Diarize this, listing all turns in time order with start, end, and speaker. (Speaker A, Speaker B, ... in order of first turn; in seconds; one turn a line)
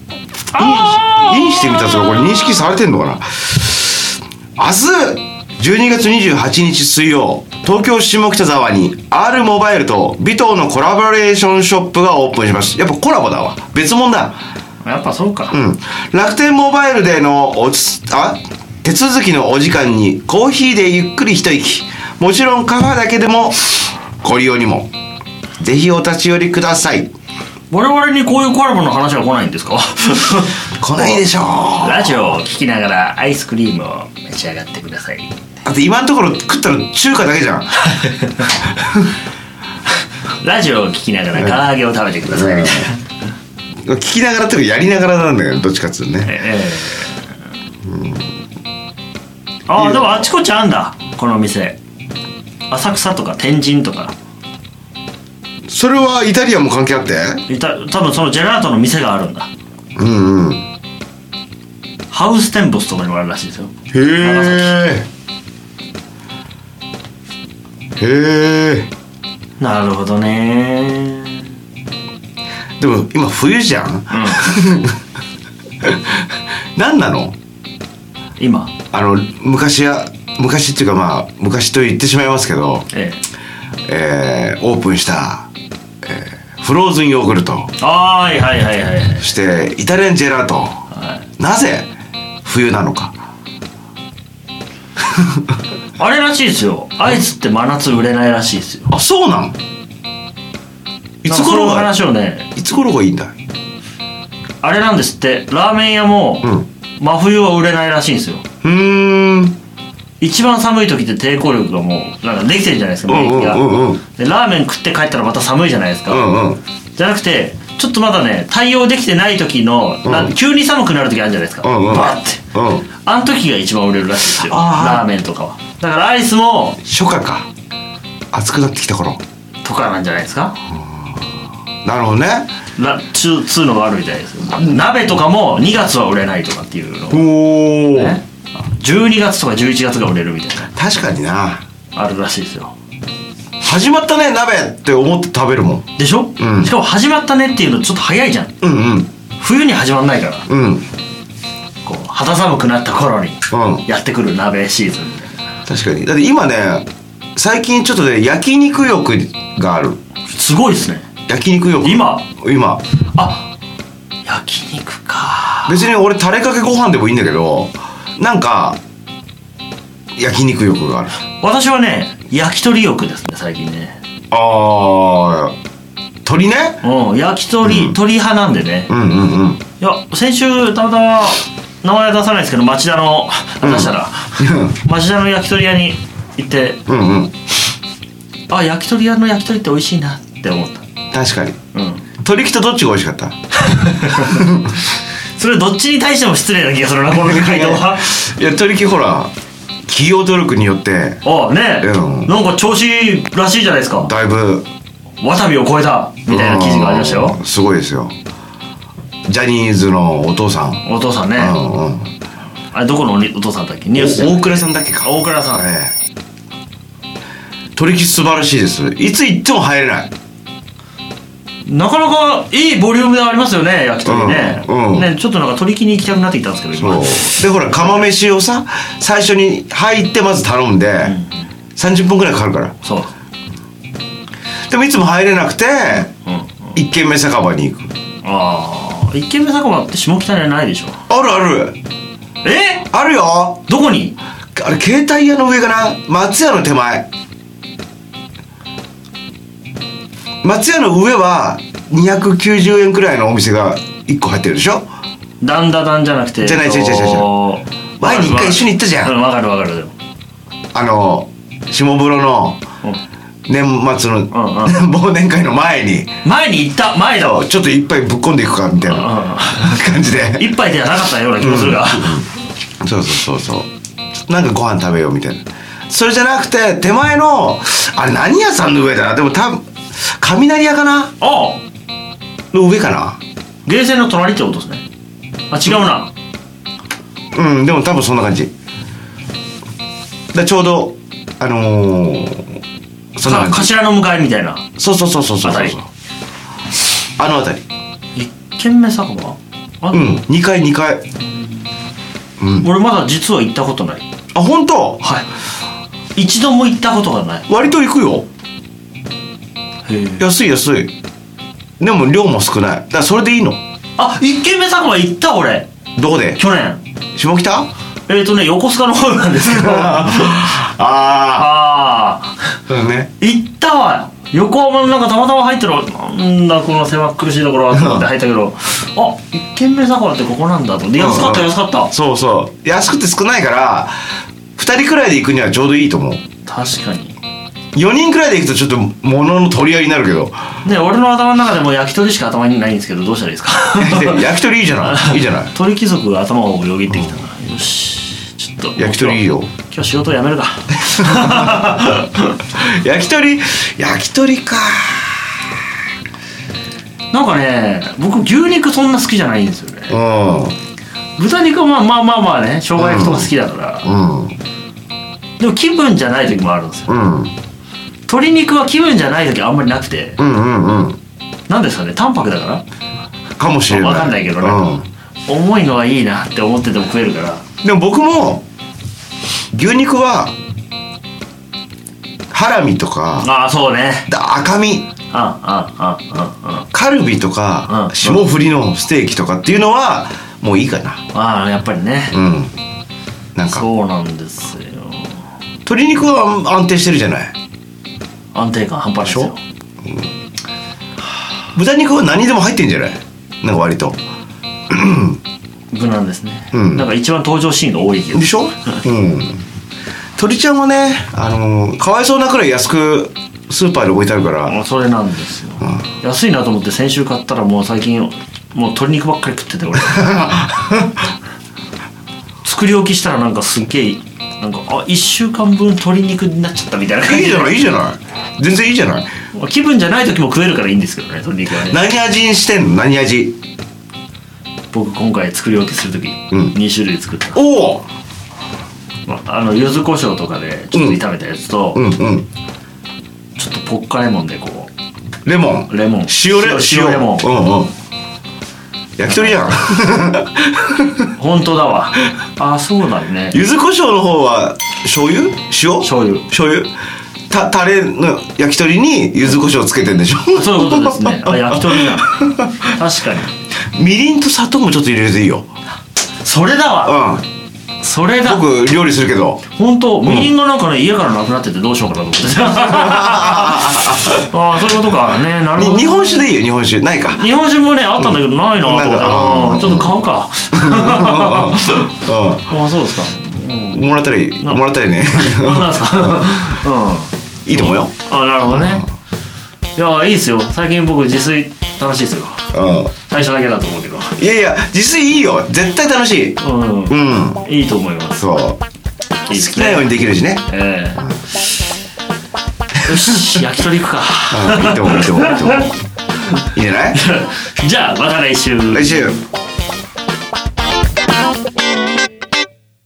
Speaker A: 0.5-2.6
Speaker B: 0.5-14.4
Speaker A: 14.8-15.6
Speaker B: 15.5-24.9
Speaker B: 25.6-27.1
Speaker A: 27.7-31.2
Speaker B: 30.8-32.4
Speaker A: 31.8-35.3
Speaker B: 35.6-37.7
Speaker A: 37.9-38.7
Speaker B: 38.8-39.1
Speaker A: 40.4-43.0
Speaker B: 41.3-41.7
Speaker B: 42.2-42.9
Speaker B: 43.8-46.4
Speaker A: 46.2-47.2
Speaker B: 47.8-48.3
Speaker A: 49.7-51.8
Speaker B: 49.7-50.3
Speaker A: 52.7-54.1
Speaker B: 55.7-57.4
Speaker A: 57.5-59.5
Speaker B: 60.0-60.7
Speaker A: 62.1-64.8
Speaker B: 63.9-65.1
Speaker B: 68.0-68.9
Speaker A: 69.6-71.5
Speaker B: 72.8-75.0
Speaker A: 74.1-74.5
Speaker B: 75.8-76.2
Speaker B: 76.8-77.3
Speaker A: 78.4-78.7
Speaker B: 78.9-82.9
Speaker A: 82.9-83.2
Speaker B: 83.9-85.5
Speaker B: 86.0-87.7
Speaker A: 87.8-89.2
Speaker B: 89.2-90.8
Speaker A: 90.9-91.2
Speaker B: 91.4-91.9
Speaker B: 92.4-93.1
Speaker A: 96.0-98.9
Speaker B: 98.9-99.5
Speaker B: 101.2-101.9
Speaker A: 101.2-102.5
Speaker B: 102.5-103.3
Speaker A: 104.6-108.4
Speaker B: 108.6-109.6
Speaker A: 110.2-116.3
Speaker B: 113.0-114.0
Speaker B: 116.1-116.6
Speaker A: 117.0-122.4
Speaker B: 120.0-120.3
Speaker B: 121.6-122.9
Speaker A: 123.0-126.8
Speaker B: 124.3-125.1
Speaker B: 126.8-127.5
Speaker B: 128.3-129.2
Speaker A: 129.6-130.6
Speaker B: 130.7-131.2
Speaker B: 131.8-132.5
Speaker A: 132.8-137.3
Speaker B: 137.1-138.2
Speaker A: 137.9-140.7
Speaker B: 140.7-141.6
Speaker A: 141.9-142.7
Speaker B: 143.6-145.8
Speaker A: 146.0-148.5
Speaker B: 146.4-146.7
Speaker B: 148.6-149.1
Speaker A: 149.4-150.5
Speaker B: 150.5-150.8
Speaker A: 151.8-155.3
Speaker B: 153.5-153.8
Speaker B: 155.7-160.0
Speaker A: 160.3-161.1
Speaker B: 161.3-162.8
Speaker A: 161.8-162.2
Speaker A: 163.1-163.5
Speaker A: 164.2-165.8
Speaker B: 165.7-168.8
Speaker B: 170.2-171.2
Speaker A: 171.4-174.0
Speaker B: 174.3-175.6
Speaker B: 176.2-176.8
Speaker A: 176.8-178.9
Speaker B: 177.6-178.0
Speaker B: 178.9-179.6
Speaker A: 179.8-186.8
Speaker B: 183.6-184.7
Speaker B: 186.9-187.3
Speaker A: 188.5-190.9
Speaker B: 191.1-191.6
Speaker A: 191.7-192.1
Speaker B: 192.2-193.4
Speaker A: 193.6-194.5
Speaker B: 194.0-194.8
Speaker A: 195.3-198.1
Speaker B: 197.1-199.3
Speaker B: 199.9-201.2
Speaker A: 201.2-204.1
Speaker B: 201.8-202.3
Speaker B: 204.0-204.7
Speaker A: 205.2-207.4
Speaker B: 206.3-208.1
Speaker B: 209.3-210.8
Speaker A: 210.8-211.6
Speaker B: 211.3-212.1
Speaker A: 212.7-215.7
Speaker B: 213.9-215.9
Speaker B: 217.8-220.1
Speaker A: 221.7-228.1
Speaker B: 224.0-225.1
Speaker B: 226.7-231.2
Speaker A: 231.0-231.4
Speaker B: 231.8-232.7
Speaker A: 232.8-233.1
Speaker B: 234.7-236.1
Speaker A: 236.2-236.6
Speaker B: 236.7-237.9
Speaker A: 238.2-241.0
Speaker B: 241.1-241.8
Speaker A: 242.4-242.9
Speaker B: 242.9-243.7
Speaker A: 243.7-244.2
Speaker B: 244.6-247.1
Speaker B: 250.4-254.9
Speaker A: 255.4-259.9
Speaker B: 256.4-257.3
Speaker B: 258.0-259.2
Speaker B: 260.7-262.6
Speaker B: 263.5-266.1
Speaker A: 264.3-264.8
Speaker A: 266.2-267.4
Speaker B: 267.2-270.5
Speaker A: 268.8-272.2
Speaker B: 271.4-273.7
Speaker B: 274.3-281.1
Speaker A: 281.2-281.6
Speaker B: 282.5-283.2
Speaker A: 283.6-284.8
Speaker A: 285.5-286.1
Speaker B: 287.3-288.5
Speaker B: 290.3-292.5
Speaker B: 293.1-293.7
Speaker A: 293.2-294.6
Speaker B: 294.8-295.9
Speaker A: 295.4-295.8
Speaker B: 297.2-297.6
Speaker A: 298.1-300.2
Speaker B: 299.9-301.0
Speaker A: 301.3-301.7
Speaker B: 302.4-302.7
Speaker A: 302.6-304.0
Speaker B: 304.3-305.0
Speaker A: 305.0-305.3
Speaker A: 306.1-307.5
Speaker B: 307.5-308.3
Speaker A: 309.8-310.2
Speaker B: 310.2-310.9
Speaker B: 311.8-313.6
Speaker A: 314.0-315.7
Speaker B: 315.9-316.4
Speaker A: 316.3-316.8
Speaker B: 317.1-317.7
Speaker A: 318.1-320.6
Speaker B: 319.4-321.5
Speaker A: 321.3-322.4
Speaker B: 322.7-323.1
Speaker A: 323.2-331.9
Speaker B: 327.7-328.1
Speaker B: 330.9-334.0
Speaker B: 334.6-336.2
Speaker A: 336.4-337.1
Speaker B: 337.7-340.4
Speaker A: 340.6-344.2
Speaker B: 343.8-345.5
Speaker A: 344.8-352.4
Speaker B: 348.8-349.5
Speaker B: 351.0-351.8
Speaker B: 352.5-355.5
Speaker A: 357.1-359.9
Speaker B: 359.9-360.6
Speaker A: 361.2-363.9
Speaker B: 362.8-364.4
Speaker A: 365.4-366.9
Speaker B: 366.9-367.3
Speaker A: 368.1-370.2
Speaker B: 370.2-371.0
Speaker A: 371.5-372.6
Speaker B: 373.4-374.9
Speaker A: 373.7-374.7
Speaker A: 375.3-377.4
Speaker B: 377.6-378.4
Speaker B: 379.5-380.3
Speaker B: 382.3-383.3
Speaker A: 383.2-384.1
Speaker B: 384.1-384.9
Speaker A: 385.1-386.7
Speaker B: 386.7-391.0
Speaker A: 387.7-388.2
Speaker A: 391.1-392.1
Speaker B: 392.1-392.5
Speaker B: 393.3-393.7
Speaker A: 393.5-395.2
Speaker B: 395.6-397.3
Speaker A: 398.3-399.4
Speaker B: 399.0-399.3
Speaker B: 401.5-404.0
Speaker B: 404.7-405.2
Speaker A: 405.7-408.3
Speaker B: 406.5-406.9
Speaker B: 408.1-409.4
Speaker B: 410.2-414.6
Speaker A: 414.5-420.1
Speaker B: 419.8-421.0
Speaker A: 422.4-427.6
Speaker B: 427.0-429.1
Speaker A: 429.3-431.8
Speaker B: 431.5-433.4
Speaker A: 434.7-437.4
Speaker B: 437.3-437.9
Speaker A: 439.1-441.8
Speaker B: 440.7-441.0
Speaker B: 441.7-442.3
Speaker A: 443.4-444.7
Speaker B: 445.2-447.7
Speaker A: 445.7-447.3
Speaker B: 449.0-451.1
Speaker A: 449.1-449.5
Speaker A: 451.1-453.4
Speaker B: 453.3-456.7
Speaker A: 455.8-456.3
Speaker B: 457.3-462.7
Speaker A: 460.3-463.3
Speaker B: 463.7-465.5
Speaker A: 466.2-466.9
Speaker B: 466.8-467.2
Speaker A: 467.8-468.5
Speaker B: 468.2-469.4
Speaker A: 469.6-476.3
Speaker B: 470.0-470.3
Speaker B: 472.5-474.2
Speaker B: 475.5-477.2
Speaker A: 477.1-481.9
Speaker B: 478.0-480.0
Speaker B: 480.5-482.6
Speaker A: 482.5-483.8
Speaker B: 483.7-486.6
Speaker A: 485.1-488.9
Speaker B: 487.4-487.9
Speaker B: 488.5-488.8
Speaker A: 489.8-492.4
Speaker B: 492.5-492.9
Speaker A: 493.1-494.1
Speaker B: 494.1-497.4
Speaker A: 496.4-498.2
Speaker B: 498.1-498.6
Speaker A: 499.3-499.9
Speaker B: 499.3-501.2
Speaker A: 500.5-501.1
Speaker A: 502.8-505.7
Speaker B: 504.3-505.8
Speaker B: 506.5-507.0
Speaker A: 506.9-509.1
Speaker B: 508.7-509.2